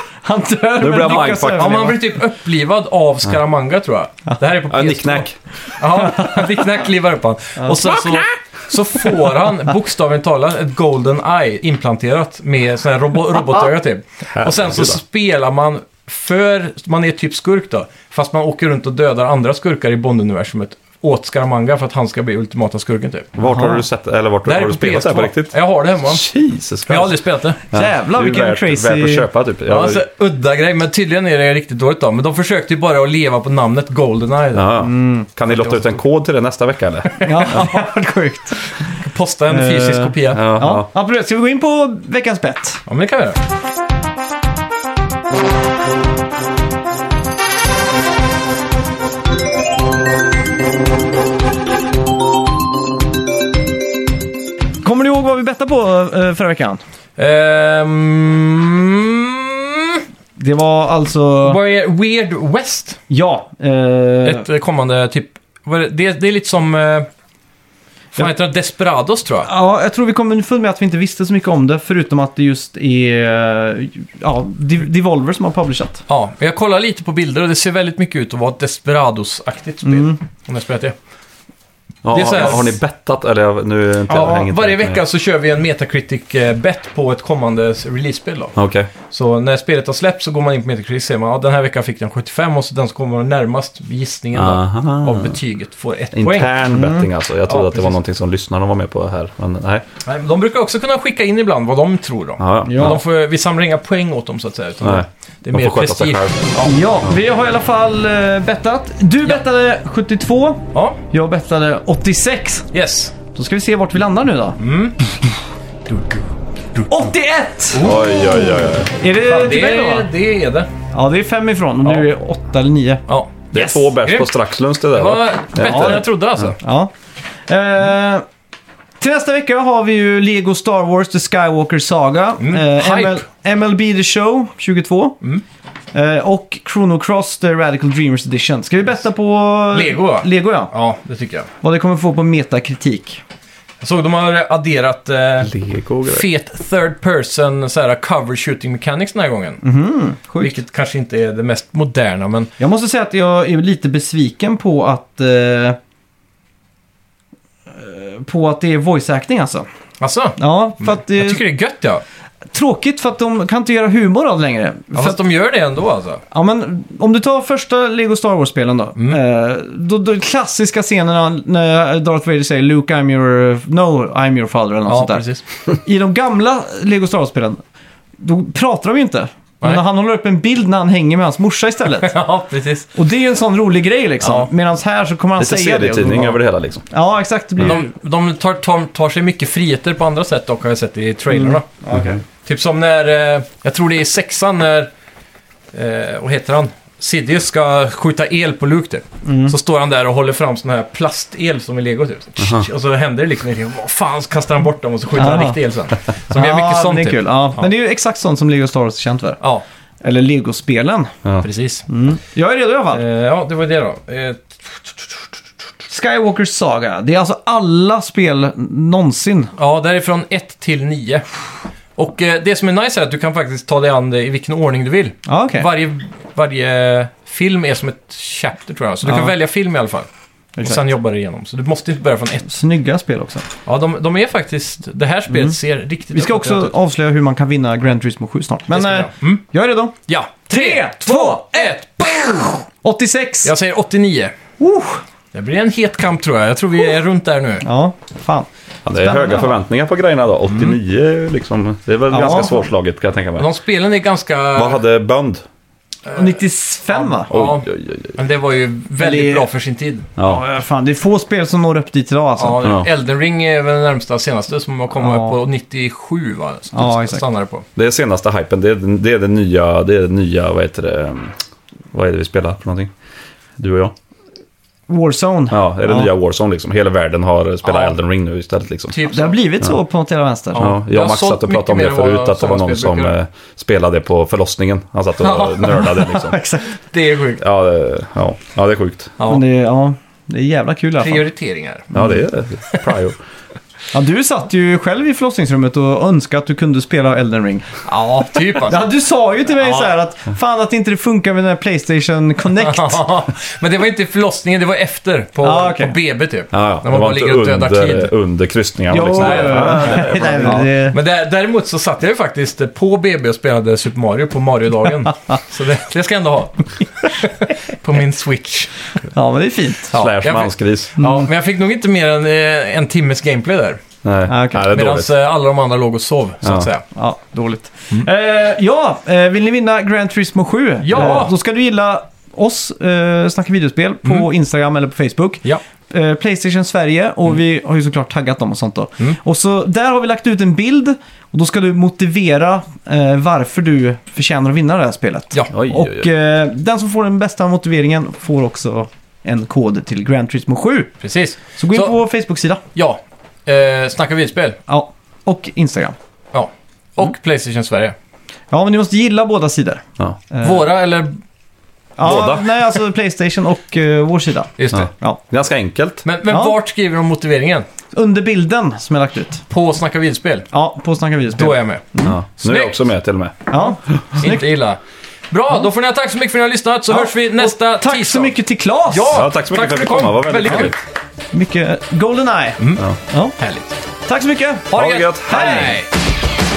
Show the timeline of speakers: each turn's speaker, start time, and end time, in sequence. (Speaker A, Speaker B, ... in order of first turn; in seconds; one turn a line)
Speaker A: 0.2-2.0
Speaker B: 0.8-1.9
Speaker C: 1.0-23.3
Speaker B: 4.7-5.4
Speaker B: 14.3-15.0
Speaker B: 23.4-27.2
Speaker A: 23.4-23.8
Speaker C: 24.4-26.2
Speaker C: 26.9-27.6
Speaker B: 27.7-30.0
Speaker A: 27.7-29.3
Speaker C: 29.7-34.7
Speaker B: 34.5-37.6
Speaker A: 34.8-35.3
Speaker C: 37.1-37.8
Speaker A: 37.2-38.9
Speaker C: 38.9-40.4
Speaker A: 39.5-42.8
Speaker B: 40.3-40.9
Speaker C: 42.9-43.4
Speaker A: 54.8-56.8
Speaker C: 57.2-60.0
Speaker A: 60.4-61.6
Speaker C: 61.4-63.0
Speaker A: 63.1-64.4
Speaker C: 64.2-67.1
Speaker C: 68.1-69.5
Speaker A: 69.4-76.0
Speaker C: 76.1-81.0
Speaker A: 79.8-80.2
Speaker B: 82.0-85.0
Speaker C: 82.1-82.8
Speaker C: 84.1-88.5
Speaker B: 88.5-88.9
Speaker C: 89.1-96.5
Speaker B: 94.3-95.4
Speaker B: 96.1-99.8
Speaker A: 96.7-97.0
Speaker C: 97.5-98.0
Speaker C: 100.0-106.7
Speaker B: 102.4-103.0
Speaker A: 102.7-103.0
Speaker B: 104.8-106.4
Speaker A: 106.6-112.7
Speaker C: 112.7-113.1
Speaker A: 113.3-114.6
Speaker C: 114.6-115.0
Speaker A: 116.9-120.1
Speaker C: 117.7-118.5
Speaker B: 117.8-118.9
Speaker C: 119.3-120.7
Speaker A: 120.9-123.0
Speaker C: 123.1-124.3
Speaker B: 123.5-126.5
Speaker C: 124.9-126.6
Speaker A: 125.6-126.0
Speaker A: 126.6-126.9
Speaker A: 127.5-128.2
Speaker A: 129.0-135.2
Speaker C: 132.4-133.2
Speaker A: 135.9-140.7
Speaker C: 139.7-141.5
Speaker A: 141.6-143.2
Speaker C: 143.8-145.5
Speaker B: 145.4-146.2
Speaker C: 146.0-149.6
Speaker A: 149.6-150.5
Speaker C: 150.4-152.5
Speaker A: 152.6-155.8
Speaker A: 157.7-159.7
Speaker C: 160.0-162.0
Speaker A: 160.4-161.4
Speaker A: 162.5-165.2
Speaker C: 164.9-166.2
Speaker A: 166.3-177.6
Speaker C: 174.9-175.4
Speaker A: 178.2-182.2
Speaker C: 181.9-182.9
Speaker A: 182.9-187.9
Speaker C: 184.2-184.5
Speaker B: 185.4-186.8
Speaker C: 187.6-191.8
Speaker A: 191.3-192.2
Speaker B: 191.9-192.2
Speaker C: 192.4-194.9
Speaker C: 195.7-207.7
Speaker A: 199.2-199.6
Speaker B: 202.4-202.7
Speaker A: 205.2-205.6
Speaker A: 206.3-209.4
Speaker A: 210.0-211.1
Speaker C: 211.4-211.8
Speaker A: 211.9-213.0
Speaker C: 212.9-215.1
Speaker A: 215.9-219.5
Speaker C: 219.6-221.3
Speaker C: 221.9-230.1
Speaker A: 225.2-225.7
Speaker A: 229.0-229.3
Speaker C: 230.6-232.4
Speaker A: 232.4-233.4
Speaker C: 233.7-236.7
Speaker A: 235.3-235.6
Speaker A: 236.1-239.9
Speaker C: 238.7-239.4
Speaker C: 240.1-242.5
Speaker A: 240.5-243.5
Speaker C: 243.4-244.3
Speaker A: 244.6-245.0
Speaker C: 245.3-247.6
Speaker A: 247.6-249.5
Speaker B: 248.8-253.5
Speaker C: 250.5-250.7
Speaker A: 252.1-252.7
Speaker C: 253.4-254.8
Speaker B: 254.5-255.4
Speaker C: 256.1-260.1
Speaker A: 256.1-257.3
Speaker B: 257.3-258.2
Speaker A: 259.0-259.5
Speaker B: 260.2-260.4
Speaker A: 260.2-262.7
Speaker C: 262.4-267.6
Speaker B: 262.6-262.9
Speaker A: 265.0-265.4
Speaker A: 266.7-267.2
Speaker B: 267.8-271.3
Speaker B: 271.9-272.9
Speaker B: 273.6-273.9
Speaker A: 274.9-276.1
Speaker B: 275.5-278.9
Speaker C: 277.6-277.9
Speaker C: 278.9-279.4
Speaker A: 279.0-280.6
Speaker C: 280.5-283.1
Speaker B: 280.6-286.4
Speaker C: 285.2-287.4
Speaker A: 285.9-286.7
Speaker B: 287.4-289.1
Speaker A: 289.3-291.3
Speaker C: 291.0-291.9
Speaker A: 291.9-292.2
Speaker B: 291.9-293.2
Speaker A: 293.9-297.7
Speaker C: 297.9-298.8
Speaker A: 298.6-303.0
Speaker C: 299.6-299.9
Speaker C: 302.6-308.1
Speaker A: 305.4-305.9
Speaker B: 306.5-310.7
Speaker A: 308.9-310.9
Speaker C: 309.0-318.9
Speaker A: 319.1-319.9
Speaker B: 319.9-320.9
Speaker C: 319.9-323.8
Speaker A: 321.0-321.3
Speaker B: 324.0-325.1
Speaker A: 324.3-324.6
Speaker C: 324.6-326.8
Speaker B: 326.4-326.7
Speaker A: 326.9-350.9
Speaker C: 330.8-331.3
Speaker B: 330.9-331.2
Speaker B: 345.5-346.1
Speaker C: 351.0-351.9
Speaker A: 351.6-352.6
Speaker C: 352.7-354.6
Speaker A: 354.7-355.9
Speaker C: 356.3-357.9
Speaker A: 358.5-360.6
Speaker C: 360.4-361.2
Speaker A: 362.0-365.2
Speaker B: 362.0-362.4
Speaker C: 364.6-364.9
Speaker B: 364.7-366.0
Speaker C: 366.0-367.6
Speaker A: 366.2-366.6
Speaker A: 367.9-369.4
Speaker C: 369.5-370.5
Speaker A: 370.5-372.1
Speaker C: 371.3-372.8
Speaker B: 372.0-373.3
Speaker A: 373.5-374.5
Speaker C: 374.2-374.8
Speaker C: 375.3-378.3
Speaker A: 376.9-379.2
Speaker C: 378.9-380.7
Speaker B: 379.1-380.8
Speaker A: 381.3-383.3
Speaker C: 382.6-382.8
Speaker C: 383.4-383.8
Speaker A: 384.1-385.8
Speaker C: 384.7-385.9
Speaker B: 384.7-385.8